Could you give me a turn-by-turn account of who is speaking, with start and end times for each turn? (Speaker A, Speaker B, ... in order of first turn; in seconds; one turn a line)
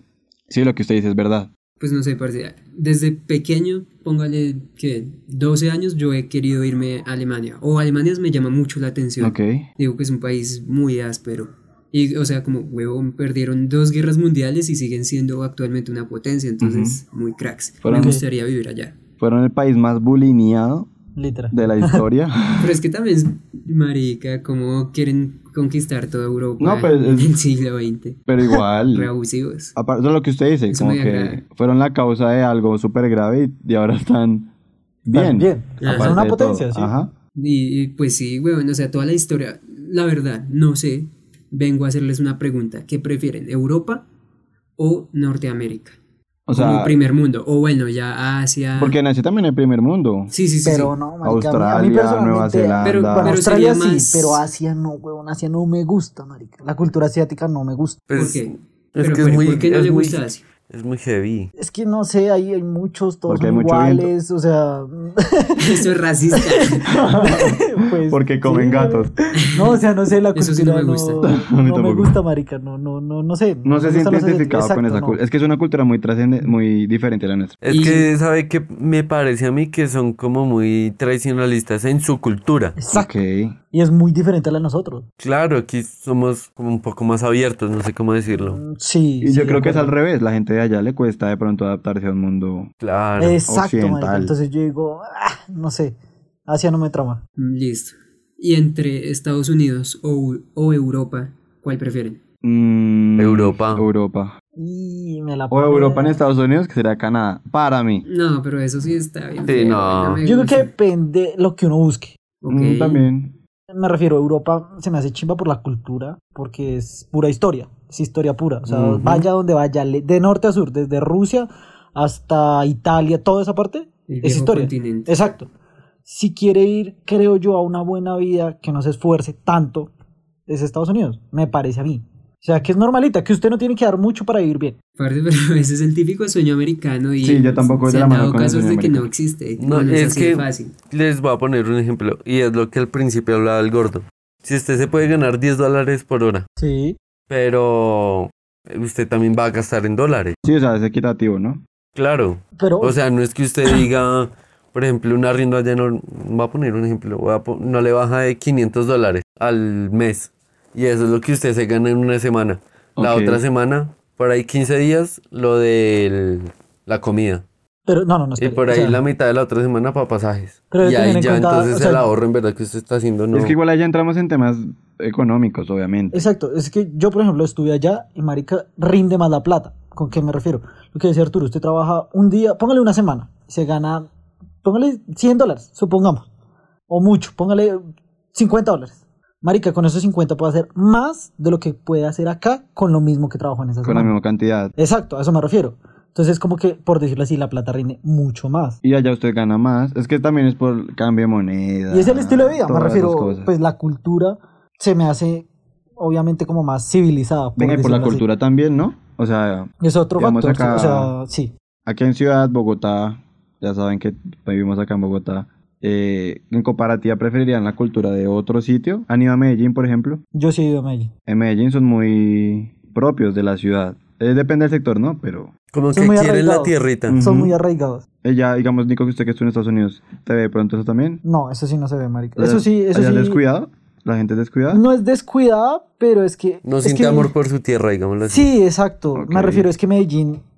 Speaker A: 0.5-1.5
Speaker B: 1.8-19.0
Speaker A: 9.2-9.7
Speaker A: 16.6-17.0
Speaker A: 17.8-18.2
Speaker C: 17.9-18.2
Speaker A: 19.2-20.9
Speaker C: 21.1-22.0
Speaker A: 21.5-22.7
Speaker B: 22.6-28.2
Speaker A: 26.6-27.3
Speaker A: 28.3-29.1
Speaker B: 28.9-29.7
Speaker A: 29.8-34.5
Speaker B: 30.7-31.4
Speaker A: 35.1-37.1
Speaker C: 35.1-36.9
Speaker B: 35.8-36.2
Speaker B: 37.4-44.1
Speaker B: 44.8-46.0
Speaker A: 46.5-47.0
Speaker B: 46.5-49.0
Speaker A: 48.8-50.3
Speaker B: 50.3-50.9
Speaker C: 50.6-58.0
Speaker A: 51.2-53.4
Speaker B: 52.8-54.4
Speaker D: 58.1-61.5
Speaker B: 58.1-60.4
Speaker C: 61.6-65.8
Speaker A: 63.3-64.1
Speaker B: 65.6-67.0
Speaker C: 66.4-75.2
Speaker A: 66.9-69.1
Speaker B: 69.3-69.8
Speaker B: 70.3-71.2
Speaker A: 71.2-72.2
Speaker A: 73.7-77.6
Speaker D: 77.6-82.8
Speaker B: 77.7-78.1
Speaker C: 82.8-83.1
Speaker A: 82.9-83.5
Speaker C: 83.7-85.1
Speaker D: 85.2-88.6
Speaker C: 88.3-89.9
Speaker A: 89.2-92.7
Speaker D: 92.8-93.4
Speaker C: 93.2-96.0
Speaker A: 93.4-94.3
Speaker C: 96.5-97.2
Speaker B: 97.4-102.2
Speaker A: 102.4-104.3
Speaker D: 103.2-103.8
Speaker C: 104.6-106.2
Speaker A: 105.5-108.0
Speaker B: 108.0-110.7
Speaker D: 109.5-110.2
Speaker C: 110.2-112.2
Speaker B: 112.4-113.1
Speaker A: 112.5-113.3
Speaker C: 113.7-125.5
Speaker A: 118.7-119.3
Speaker B: 124.1-125.1
Speaker C: 126.1-129.9
Speaker C: 130.5-134.7
Speaker B: 135.0-140.7
Speaker A: 137.2-139.1
Speaker D: 139.6-146.4
Speaker C: 146.6-147.0
Speaker D: 147.3-150.3
Speaker A: 150.4-151.6
Speaker D: 151.9-167.4
Speaker C: 152.6-152.9
Speaker A: 163.0-163.4
Speaker C: 167.9-169.0
Speaker D: 168.4-173.6
Speaker C: 170.7-172.1
Speaker A: 173.3-176.3
Speaker C: 176.1-184.1
Speaker C: 184.6-186.3
Speaker C: 186.9-194.1
Speaker A: 193.8-194.7
Speaker C: 194.8-198.8
Speaker A: 198.8-203.5
Speaker C: 201.9-205.5
Speaker C: 206.0-208.2
Speaker A: 207.6-211.1
Speaker C: 209.8-211.5
Speaker A: 211.8-220.2
Speaker C: 220.3-221.1
Speaker A: 221.3-225.5
Speaker D: 225.7-227.2
Speaker C: 225.9-228.1
Speaker A: 227.1-227.6
Speaker A: 228.2-231.2
Speaker C: 231.2-233.4
Speaker A: 232.4-234.8
Speaker C: 234.7-237.3
Speaker D: 236.6-238.5
Speaker C: 238.3-240.4
Speaker A: 239.2-239.7